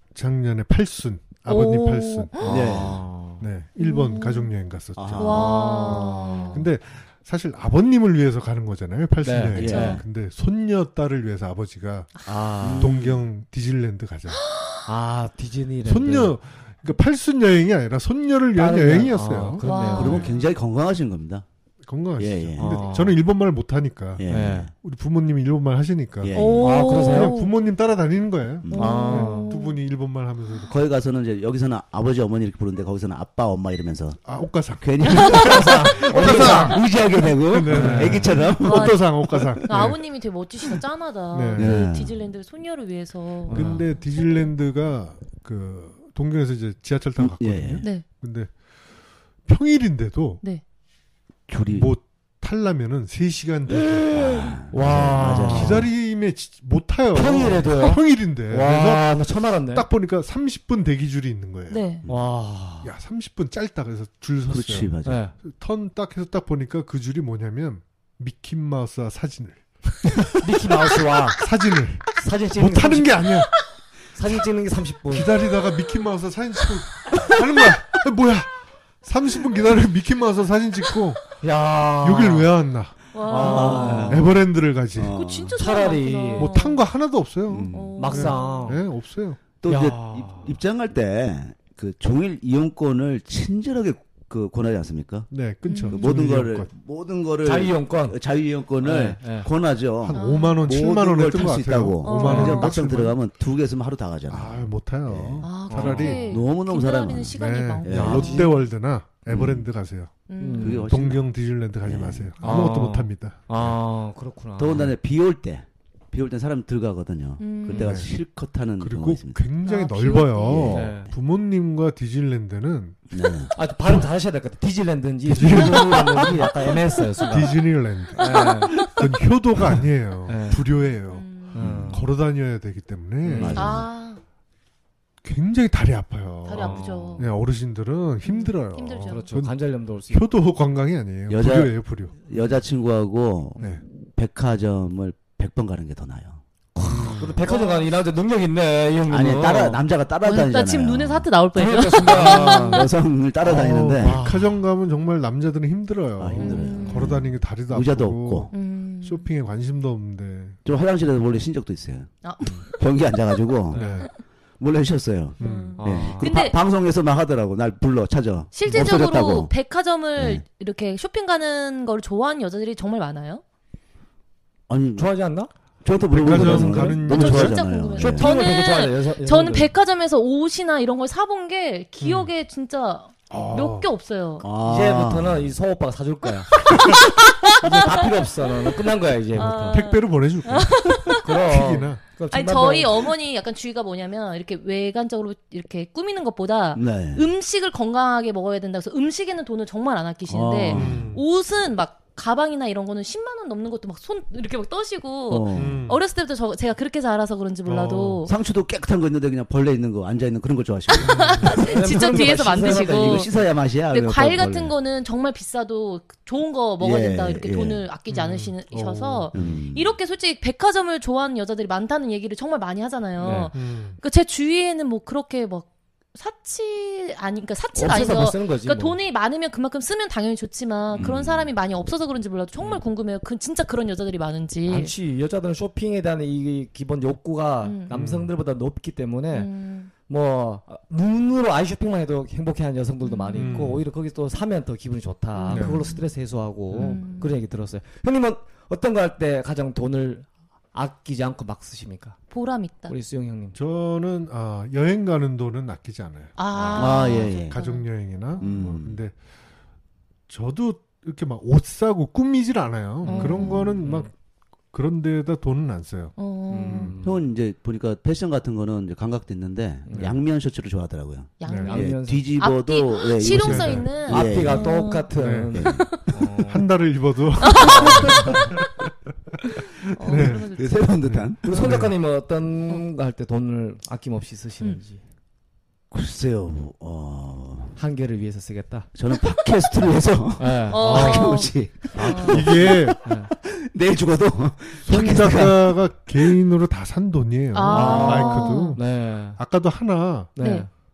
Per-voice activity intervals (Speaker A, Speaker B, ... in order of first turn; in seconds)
Speaker A: 0.1-5.5, 6.5-12.2, 12.7-14.4, 15.8-19.7, 21.9-26.3, 27.0-30.7, 34.2-36.8, 37.5-40.0, 41.3-41.8, 43.5-48.5, 49.5-50.4, 51.7-59.1, 59.7-61.8, 62.8-70.2, 71.4-73.6, 75.1-81.2, 82.0-85.2, 86.4-89.4, 95.3-96.7, 100.0-103.2, 104.3-106.4, 107.3-110.1, 110.7-113.4, 117.7-118.1, 118.8-123.0, 125.3-126.5, 127.3-133.8, 135.2-139.6, 140.1-142.1, 146.8-147.5, 153.5-160.6, 163.7-164.1, 165.4-165.8, 176.1-177.6, 182.0-182.3, 183.3-183.9, 189.4-192.0, 200.7-201.2, 205.5-206.0, 207.7-208.3, 211.0-211.6, 218.1-219.3, 223.5-224.0, 237.9-238.3, 243.4-243.8, 245.5-245.8, 246.7-247.0, 253.6-259.1, 260.3-264.1, 264.7-266.1, 266.7-266.9, 271.5-271.7, 273.4-273.9, 275.1-275.6, 276.4-278.7, 280.0-282.0, 290.9-291.3, 292.1-293.0, 294.8-300.3
Speaker B: 1.5-2.6, 3.8-4.5, 5.2-6.7, 9.6-10.0, 19.6-20.5, 26.3-27.5, 28.7-29.8, 36.4-36.7, 38.1-43.9, 61.7-62.0, 83.1-84.2, 85.1-86.8, 87.7-88.8, 95.7-96.2, 100.1-100.6, 102.0-102.8, 105.4-108.6, 110.3-110.8, 117.4-118.0, 119.6-120.8, 128.2-129.0, 131.1-131.6, 133.6-134.2, 136.4-137.3, 138.2-139.3, 147.5-147.9, 150.2-152.9, 156.4-157.1, 158.5-159.2, 162.2-162.7, 165.4-166.6, 168.5-173.4, 176.3-184.4, 186.8-188.1, 189.3-191.2, 192.3-208.3, 210.9-213.3, 213.9-234.9, 237.6-237.9, 239.3-239.9, 243.0-243.7, 245.4-246.1, 246.7-247.3, 252.3-252.9, 256.4-257.9, 258.4-258.7, 263.1-263.8, 266.2-266.9, 271.4-276.1, 277.4-278.4, 279.9-280.9, 290.7-292.4, 297.5-298.8, 300.4-300.7
Speaker C: 2.4-3.4, 5.3-6.7, 9.2-9.7, 12.3-12.9, 14.9-16.4, 18.6-20.3, 22.6-23.2, 24.3-24.7, 26.6-27.4, 28.8-29.5, 35.2-38.3, 43.5-43.9, 54.7-55.9, 57.1-59.9, 62.1-62.9, 65.0-65.3, 70.3-71.4, 72.2-73.3, 74.1-75.4, 81.4-82.5, 83.3-84.4, 85.6-86.5, 88.0-88.8, 89.7-90.5, 97.4-98.2, 98.8-99.5, 102.3-102.5, 105.7-106.2, 108.0-108.5, 110.4-110.9, 112.4-114.9, 120.7-121.1, 123.5-127.6, 128.2-128.9, 130.3-130.7, 131.5-132.1, 133.2-133.6, 136.6-137.2, 139.1-140.3, 146.8-149.8, 151.6-152.9, 153.4-154.6, 163.7-164.1, 165.8-166.3, 175.0-175.5, 176.2-176.8, 178.0-179.7, 184.6-186.6, 187.6-189.8, 191.2-193.1, 211.5-213.3, 223.2-223.5, 227.8-229.0, 234.7-239.5, 240.1-252.2, 252.9-253.6, 263.0-264.1, 266.5-267.2, 269.9-270.2, 271.5-272.3, 274.1-276.7, 277.6-278.5, 281.4-285.0, 287.8-288.9, 290.4-293.3, 297.7-299.4, 300.4-300.7
Speaker D: 2.5-3.0, 5.0-5.5, 9.6-10.0, 12.5-13.2, 19.9-21.4, 22.2-22.9, 24.2-24.7, 26.2-26.8, 28.6-29.0, 30.6-34.2, 34.8-39.7, 41.6-42.1, 47.2-47.9, 51.5-51.9, 53.9-55.9, 64.5-65.2, 83.3-84.4, 85.0-85.6, 87.5-88.0, 89.6-95.3, 95.9-108.5, 109.3-109.7, 110.6-111.2, 111.8-112.5, 114.6-119.4, 120.5-121.0, 123.1-123.5, 131.6-132.0, 133.3-133.9, 141.3-141.8, 142.3-143.6, 144.2-146.4, 149.1-151.3, 152.1-154.2, 156.2-158.5, 160.7-162.1, 162.8-163.8, 164.6-169.5, 170.2-170.4, 174.7-175.1, 175.8-178.3, 184.4-185.5, 196.8-197.3, 200.3-201.1, 205.3-205.8, 208.3-214.7, 216.8-217.8, 219.3-219.9, 231.0-231.5, 256.7-257.6, 258.4-259.0, 267.0-274.8, 275.5-276.0, 280.1-281.4, 285.9-287.8, 288.9-296.4